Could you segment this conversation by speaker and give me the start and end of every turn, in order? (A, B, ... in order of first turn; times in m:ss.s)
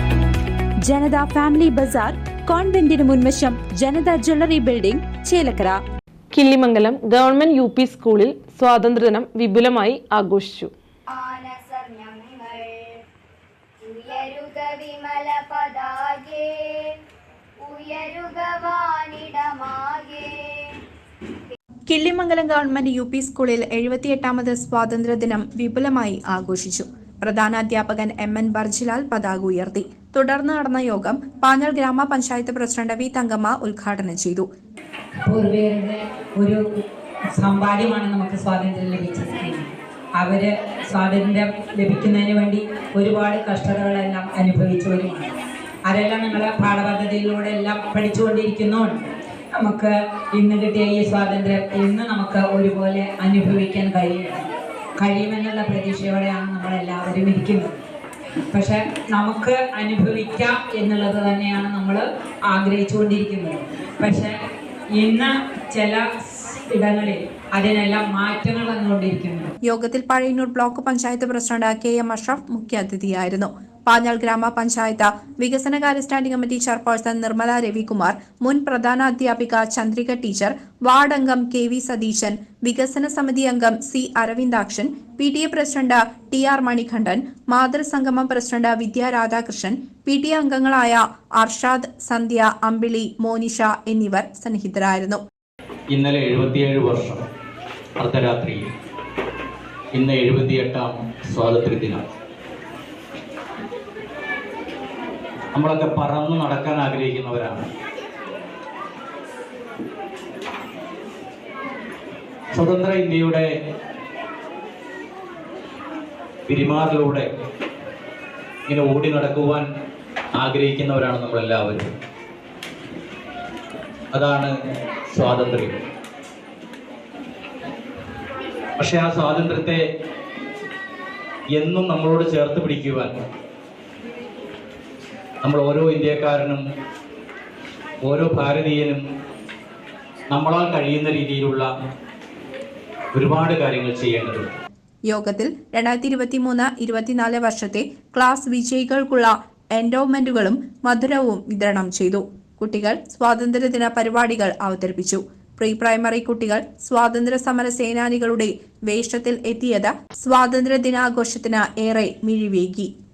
0:00.9-0:05.8 A
0:06.3-0:10.7 B
0:11.1-0:13.0 C
0:13.8-0:16.9 C
0:17.6-0:20.4 C
0:21.9-0:34.5 D
0:35.2-0:36.6 E
0:37.3-0:45.3 E
0:45.8-0:54.4 E
0:55.0-0:57.8 E
0:58.5-1:04.3 E
1:05.0-1:09.5 E
1:09.6-1:35.2 D
1:35.9-1:37.2 F
1:38.0-1:38.6 F
1:39.9-1:42.0 F
1:45.5-1:47.6 F
1:52.5-1:53.5 F
1:56.5-1:57.3 F
1:58.7-1:59.7 F
2:00.3-2:01.9 F
2:04.1-2:04.5 F
2:05.1-2:05.8 F
2:08.8-2:09.8 F
2:11.5-2:13.1 F
2:15.4-2:16.6 F
2:18.0-2:19.0 F
2:20.3-2:21.7 F
2:23.1-2:24.5 F
2:25.1-2:42.9 D